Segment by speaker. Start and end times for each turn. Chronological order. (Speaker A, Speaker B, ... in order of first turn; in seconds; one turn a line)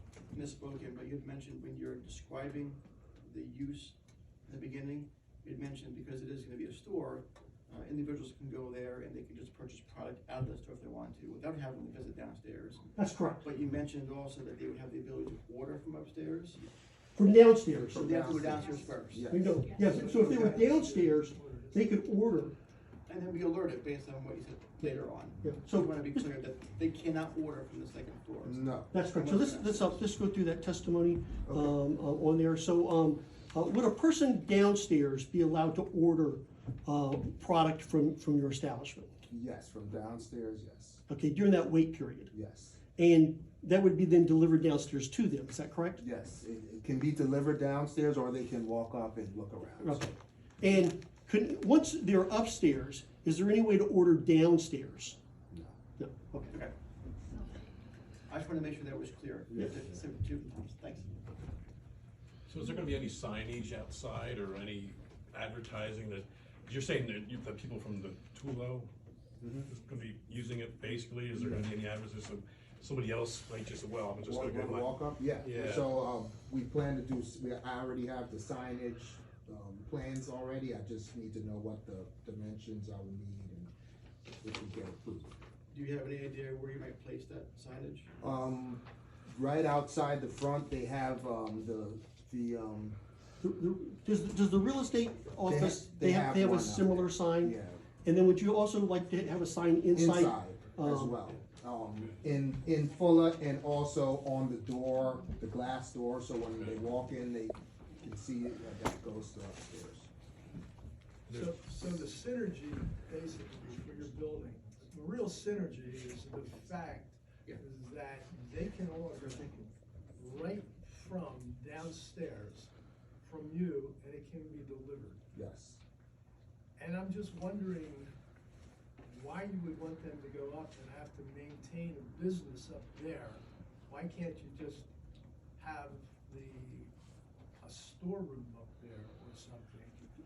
Speaker A: 0.3-4.0
Speaker A: 4.5-12.8
Speaker B: 12.9-13.4
Speaker A: 13.4-16.6
Speaker B: 17.1-18.3
Speaker C: 17.7-19.5
Speaker A: 17.9-19.4
Speaker B: 19.3-22.6
Speaker D: 19.9-22.1
Speaker A: 20.0-20.6
Speaker A: 23.1-30.0
Speaker B: 24.8-26.2
Speaker C: 28.4-28.9
Speaker B: 28.9-39.1
Speaker C: 31.5-31.7
Speaker C: 39.3-41.0
Speaker B: 41.1-42.3
Speaker C: 42.3-42.8
Speaker B: 43.0-46.0
Speaker C: 46.0-50.1
Speaker B: 49.8-55.2
Speaker B: 56.0-56.5
Speaker A: 56.5-56.7
Speaker A: 58.3-61.1
Speaker E: 62.5-68.9
Speaker C: 69.4-69.7
Speaker E: 69.7-75.9
Speaker C: 71.3-71.7
Speaker C: 74.2-83.7
Speaker C: 84.4-85.3
Speaker A: 85.7-88.1
Speaker C: 88.2-93.0
Speaker B: 93.4-101.2
Speaker C: 95.4-97.8
Speaker C: 99.9-110.1
Speaker E: 106.5-106.8
Speaker E: 111.3-111.5
Speaker D: 111.3-122.7
Speaker D: 123.2-125.2
Speaker C: 125.3-125.8
Speaker D: 126.8-128.1
Speaker D: 129.0-134.9
Speaker D: 135.6-136.9
Speaker D: 137.6-140.1